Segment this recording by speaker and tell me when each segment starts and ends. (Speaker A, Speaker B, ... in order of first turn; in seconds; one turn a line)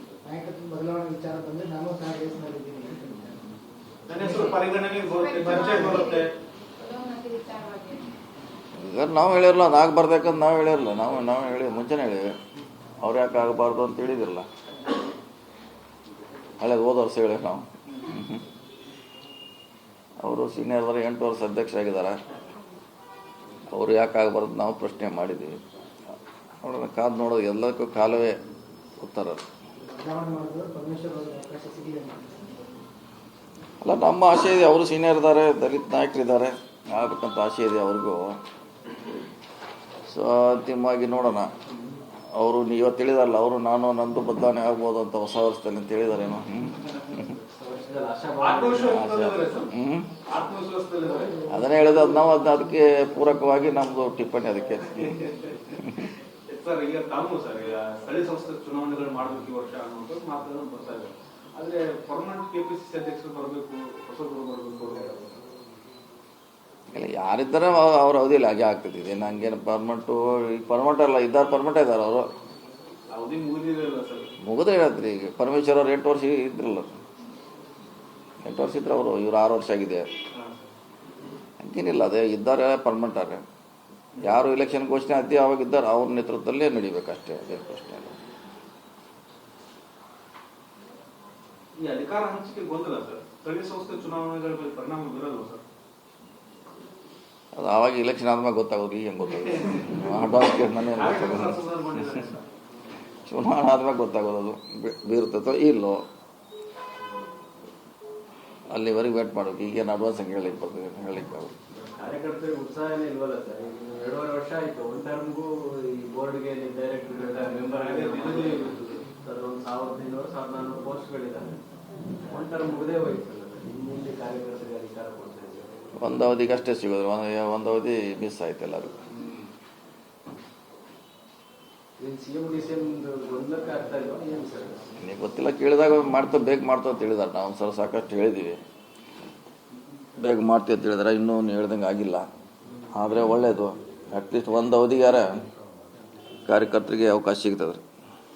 Speaker A: 0.2-3.4
Speaker B: 4.1-6.3
Speaker A: 4.2-4.6
Speaker C: 5.2-6.1
Speaker A: 5.5-6.0
Speaker C: 6.8-8.1
Speaker D: 8.8-12.3
Speaker D: 13.0-14.5
Speaker D: 16.6-18.4
Speaker D: 20.2-22.2
Speaker D: 23.7-25.6
Speaker D: 26.6-28.4
Speaker D: 29.0-29.4
Speaker A: 29.9-32.4
Speaker D: 33.8-38.4
Speaker D: 40.1-41.5
Speaker D: 42.4-47.4
Speaker E: 47.5-49.0
Speaker B: 48.4-49.7
Speaker D: 48.9-50.1
Speaker B: 50.3-51.4
Speaker A: 51.1-52.5
Speaker D: 51.5-55.2
Speaker B: 55.0-55.8
Speaker D: 55.8-56.1
Speaker B: 56.5-65.4
Speaker D: 66.9-72.2
Speaker B: 73.1-74.3
Speaker D: 74.4-77.0
Speaker D: 78.4-80.1
Speaker B: 80.3-80.7
Speaker D: 81.6-83.4
Speaker D: 84.2-88.2
Speaker B: 91.8-95.6
Speaker D: 97.5-102.1
Speaker B: 99.6-100.2
Speaker B: 100.8-102.5
Speaker D: 103.3-106.0
Speaker D: 108.7-111.5
Speaker E: 111.9-121.5
Speaker B: 117.4-119.0
Speaker E: 122.3-126.0
Speaker D: 126.0-129.0
Speaker E: 132.0-134.9
Speaker D: 135.0-138.6
Speaker D: 140.2-142.2
Speaker D: 142.9-145.3
Speaker D: 146.5-147.8